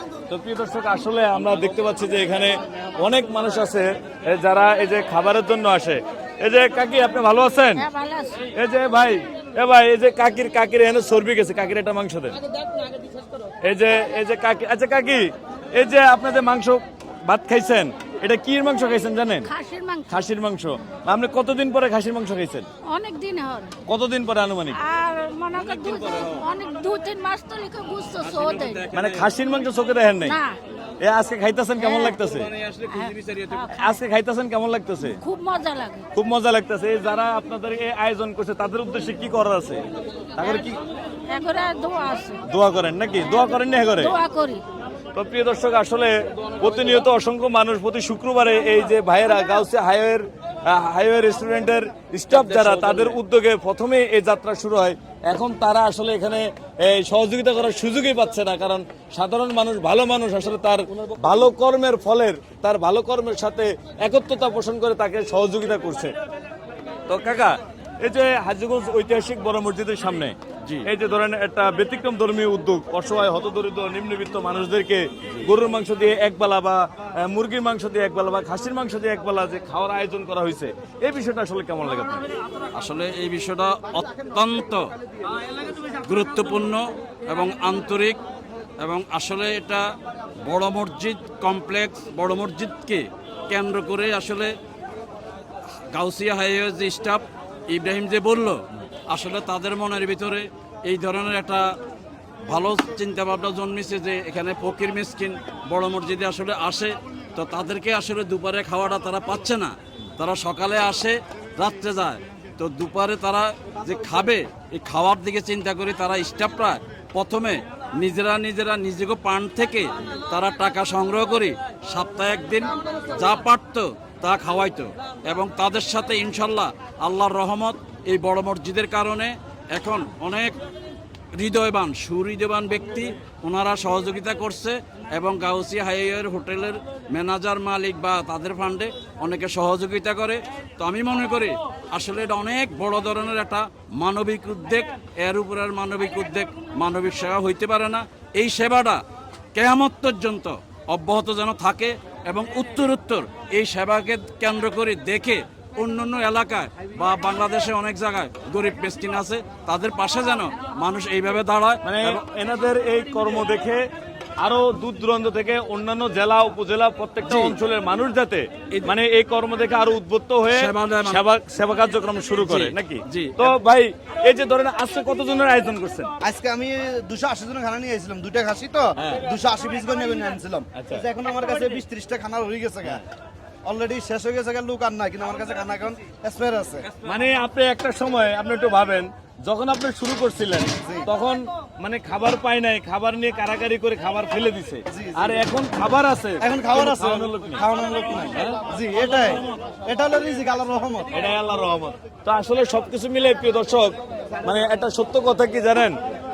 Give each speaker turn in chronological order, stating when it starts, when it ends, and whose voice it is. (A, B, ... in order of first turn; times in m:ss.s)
0:00.3-0:07.9 A
0:07.7-0:08.4 B
0:08.5-0:12.4 A
0:13.6-0:19.5 A
0:19.4-0:20.2 B
0:20.1-0:22.7 A
0:22.8-0:23.8 B
0:23.9-0:24.8 A
0:24.7-0:28.9 B
0:25.8-0:26.4 C
0:28.2-0:29.3 C
0:28.9-0:30.4 A
0:30.2-0:30.6 B
0:31.0-0:32.5 A
0:31.8-0:32.2 B
0:32.5-0:33.6 C
0:32.9-0:34.0 B
0:33.7-0:35.2 A
0:35.0-0:36.1 B
0:36.1-0:39.8 A
0:40.4-0:40.8 A
0:41.3-0:42.4 B
0:42.4-0:44.2 A
0:44.0-0:44.6 B
0:45.1-1:06.1 A
1:07.1-1:22.3 A
1:22.7-1:24.8 C
1:26.0-1:28.2 C
1:28.8-1:29.8 C
1:30.4-1:34.5 C
1:35.9-1:41.6 C
1:42.5-2:10.6 C
2:11.4-2:29.0 C
2:29.6-2:42.2 C
2:41.8-2:43.8 A
2:44.4-2:56.1 A
2:47.2-2:47.6 C
2:50.5-2:51.2 C
2:52.4-2:53.6 C
2:56.2-3:03.0 D
2:59.0-2:59.2 A
3:00.8-3:01.0 A
3:03.6-3:06.9 D
3:07.0-3:17.6 A
3:10.8-3:11.1 D
3:14.9-3:15.6 D
3:16.4-3:21.1 D
3:18.3-3:18.6 A
3:21.1-3:26.0 A